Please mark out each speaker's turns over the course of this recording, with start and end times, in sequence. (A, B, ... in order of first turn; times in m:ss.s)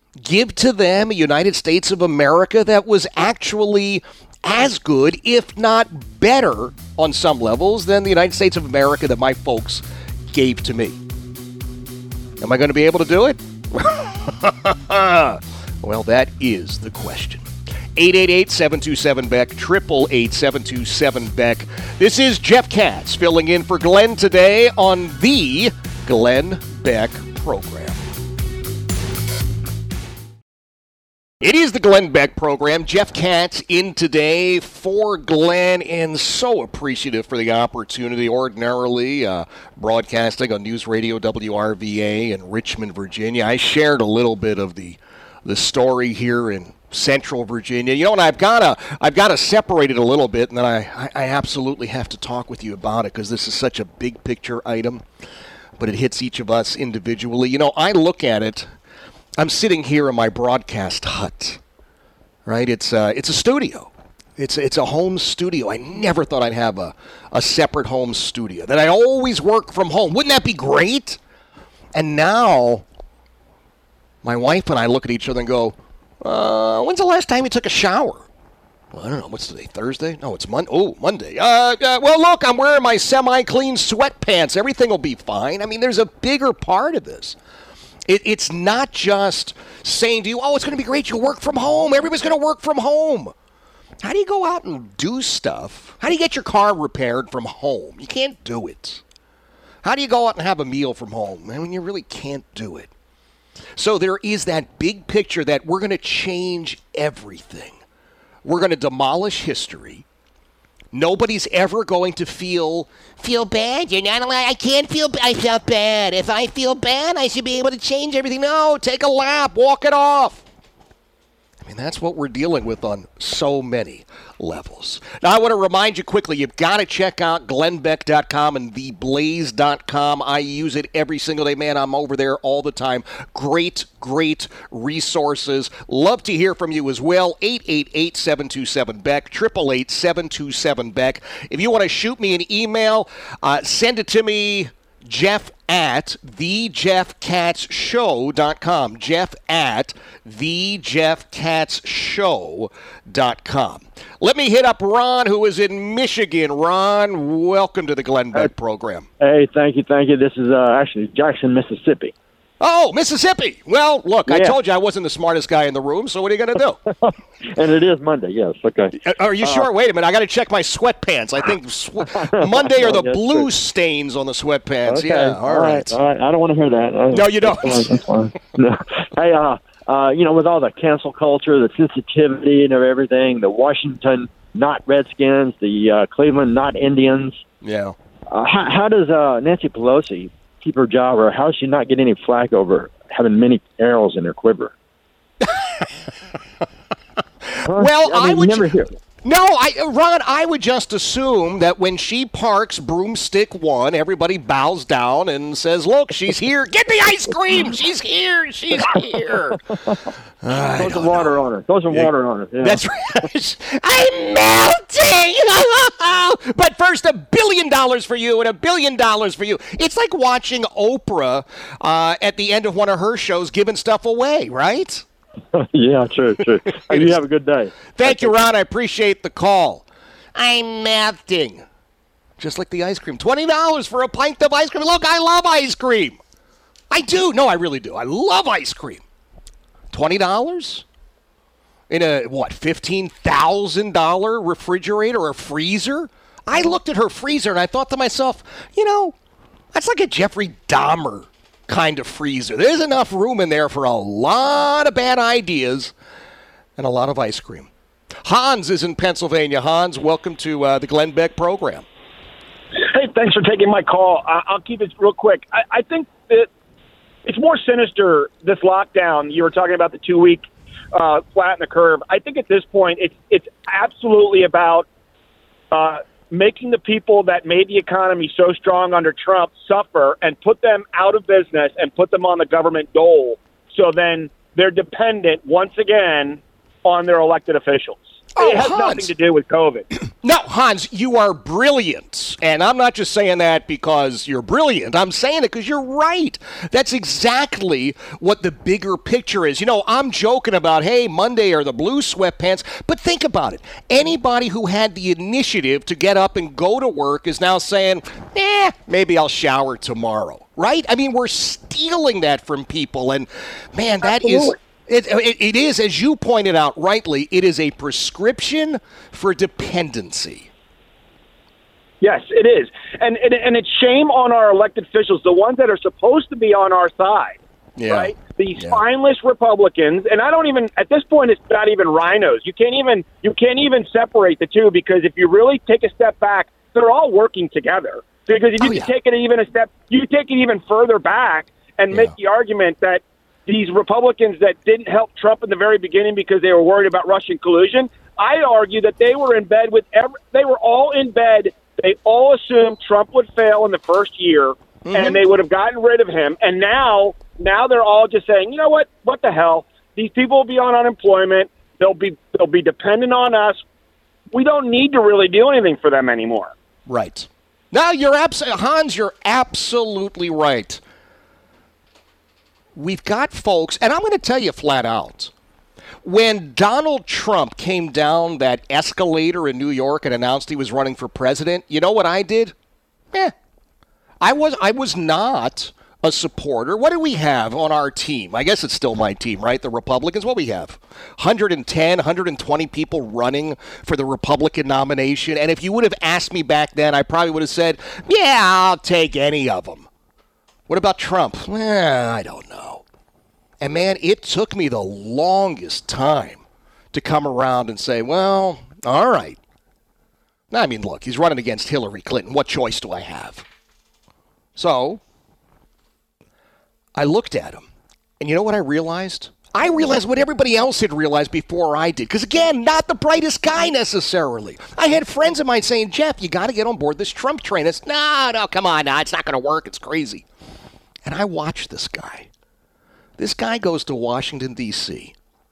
0:00.2-0:11.0 A
0:12.4-0:28.0 A
0:31.4-0:55.0 A
0:55.8-0:58.7 A
0:59.4-1:01.6 A
1:02.4-1:11.2 A
1:11.9-1:12.8 A
1:14.2-1:18.3 A
1:18.9-1:27.4 A
1:28.1-1:33.3 A
1:34.0-1:39.0 A
1:39.8-1:42.9 A
1:43.8-1:47.8 A
1:48.4-1:50.0 A
1:50.9-2:00.4 A
2:01.6-2:39.1 A
2:39.2-2:42.1 B
2:42.6-2:46.8 A
2:44.3-2:44.6 B
2:47.0-2:49.7 B
2:49.0-2:56.0 A
2:52.1-2:53.5 B
2:54.9-3:07.4 B
2:57.1-2:58.0 A
3:07.6-3:08.0 A
3:08.3-3:14.7 B
3:15.4-3:15.9 A
3:17.5-3:18.7 A
3:17.7-3:19.0 B
3:19.2-3:29.8 A
3:30.4-3:31.4 A
3:30.8-3:32.8 B
3:31.9-3:45.0 A
3:45.5-3:48.4 B
3:46.9-3:47.2 A
3:47.9-3:51.6 A
3:52.4-3:56.2 A
3:56.9-3:59.0 A
3:59.9-4:00.8 A
4:01.9-4:09.1 A
4:09.7-4:15.9 A
4:16.8-4:17.7 A
4:18.2-4:21.8 A
4:22.8-4:26.5 C
4:27.2-4:34.9 C
4:35.7-4:49.9 C
4:48.3-4:49.1 A
4:50.2-5:20.5 A
5:22.0-6:03.6 C
5:27.8-5:28.8 A
5:38.6-5:38.9 A
5:54.8-5:55.2 A
6:04.3-6:06.5 C
6:06.9-6:10.8 A
6:12.8-6:15.3 A
6:16.0-6:22.5 A
6:24.2-6:39.9 A
6:40.7-6:42.8 A
6:43.6-6:49.4 A
6:50.5-6:53.4 A
6:54.6-6:55.0 A
6:57.0-6:57.6 A
6:58.2-7:10.2 A
7:11.0-7:12.3 A
7:13.2-7:15.1 A